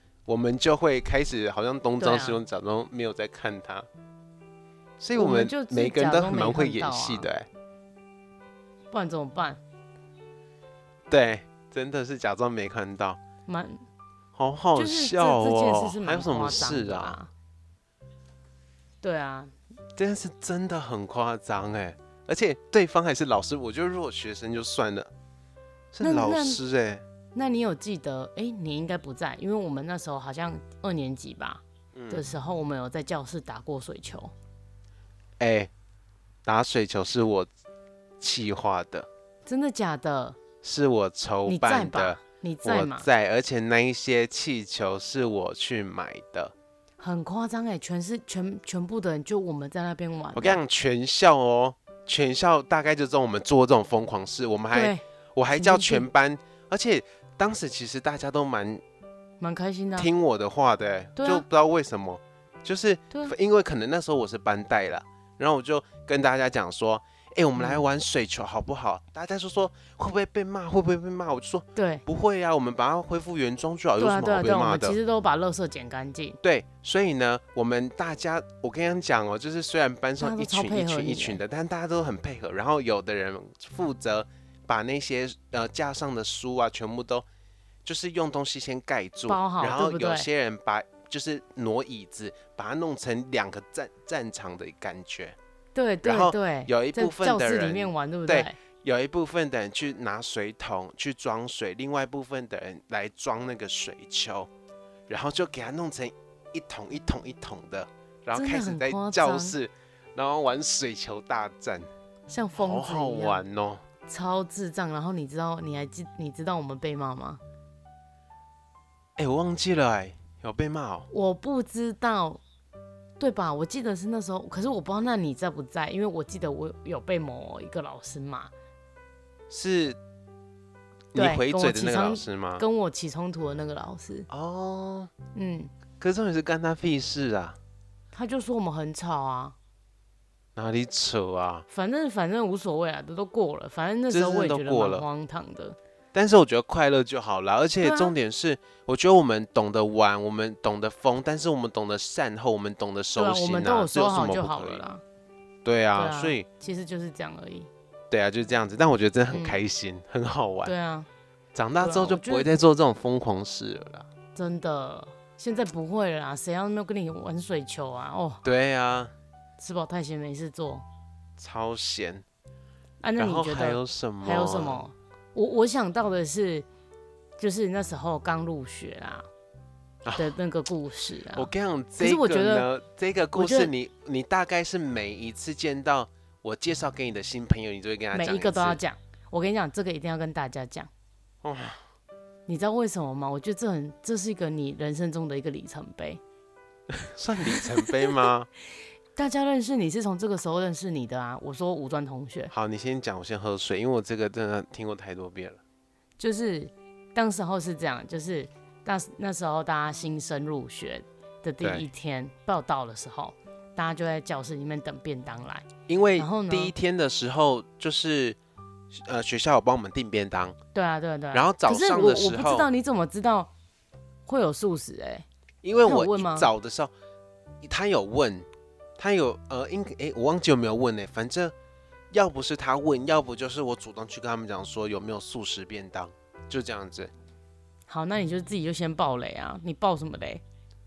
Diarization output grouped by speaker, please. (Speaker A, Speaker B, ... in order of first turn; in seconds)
Speaker A: 0.3-3.9, 5.0-7.5, 11.1-13.2, 14.4-17.2, 20.0-25.1, 25.9-27.0, 31.9-32.2, 35.4-35.7, 36.5-37.5, 38.2-39.1, 40.6-46.5, 50.3-58.8, 60.0-75.0, 76.4-87.3, 87.8-95.4, 96.0-104.5, 105.1-111.9, 112.6-113.8, 119.2-121.1, 129.5-130.0, 131.1-132.6, 134.3-135.1, 136.0-137.6, 140.6-141.7, 144.1-145.1, 146.1-154.8, 155.7-156.5, 158.1-160.7, 161.6-164.1, 168.4-169.1, 171.4-172.2, 173.2-174.8, 180.1-180.4, 181.3-188.8, 191.4-191.8, 196.9-198.5, 202.5-205.6, 215.9-218.4, 218.9-220.6, 221.3-222.7, 225.6-226.9, 227.6-228.5, 229.0-231.5, 232.1-237.1
Speaker B: 2.0-2.4, 5.2-7.3, 8.9-9.6, 13.5-13.8, 14.8-17.3, 19.0-19.5, 26.0-26.6, 27.3-34.3, 39.5-40.4, 41.5-43.1, 47.0-50.6, 54.7-55.0, 55.5-56.1, 59.4-60.1, 61.2-61.5, 67.6-67.8, 71.8-72.0, 74.0-76.4, 80.2-81.4, 89.3-90.3, 95.8-98.6, 108.3-109.6, 112.3-113.4, 114.1-117.4, 121.1-122.4, 123.2-128.5, 131.1-134.3, 135.3-135.7, 138.1-139.6, 141.7-145.8, 147.8-148.1, 153.2-155.0, 155.9-157.7, 159.3-159.6, 160.7-161.1, 161.8-162.5, 164.3-168.4, 169.6-170.8, 173.0-176.7, 177.4-179.3, 180.2-182.7, 183.3-183.7, 188.1-190.9, 192.5-196.2, 197.4-198.1, 199.2-202.5, 206.2-216.7, 220.7-223.5, 224.3-225.3, 225.9-226.5, 237.9-240.4